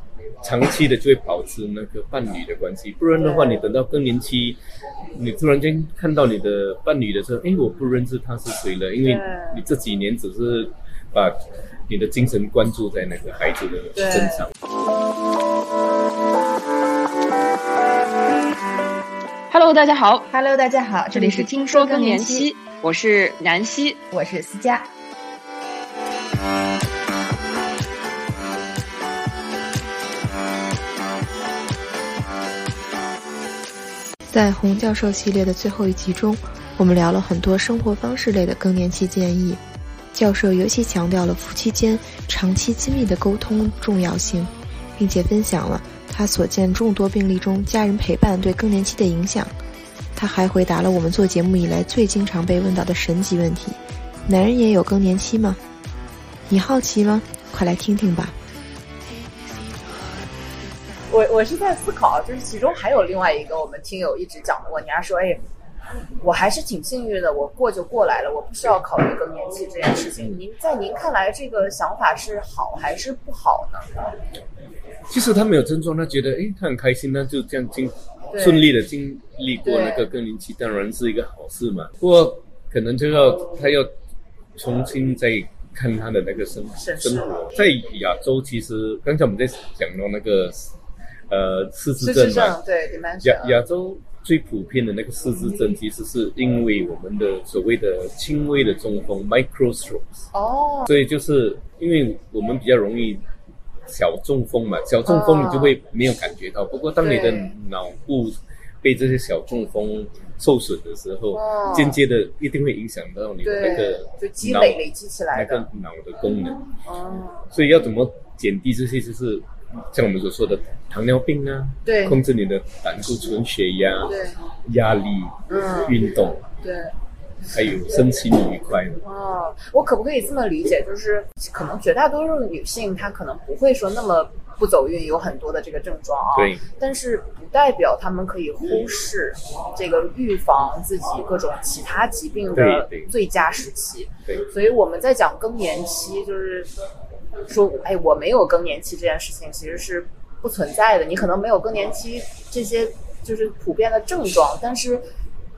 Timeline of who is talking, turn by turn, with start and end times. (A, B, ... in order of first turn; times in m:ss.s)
0:00.4-0:04.6 A
0:03.2-0:03.6 B
0:05.2-0:14.5 A
0:09.0-0:09.6 B
0:14.0-0:14.5 B
0:19.5-0:24.8 C
0:20.4-0:22.9 B
0:24.1-0:24.7 B
0:34.3-0:39.6 D
0:40.1-0:49.5 D
0:50.1-0:55.6 D
0:56.5-0:58.3 D
1:01.1-1:05.4 B
1:06.2-1:14.0 B
1:15.1-1:23.9 A
1:18.3-1:18.7 B
1:19.6-1:20.1 B
1:24.6-1:30.7 A
1:26.8-1:27.6 B
1:31.3-1:32.6 A
1:32.0-1:33.6 B
1:33.2-1:40.3 A
1:40.3-1:40.9 B
1:40.8-1:43.2 A
1:43.9-1:54.8 A
1:45.1-1:45.7 B
1:47.0-1:47.5 B
1:51.3-1:52.0 B
1:53.4-1:55.7 B
1:55.3-1:56.6 A
1:56.8-1:57.5 B
1:57.5-2:06.4 A
2:01.8-2:02.2 B
2:04.1-2:04.4 B
2:05.5-2:06.0 B
2:06.6-2:06.9 B
2:07.5-2:09.0 A
2:09.0-2:26.7 B
2:16.3-2:16.6 A
2:22.5-2:23.1 A
2:27.5-2:35.0 B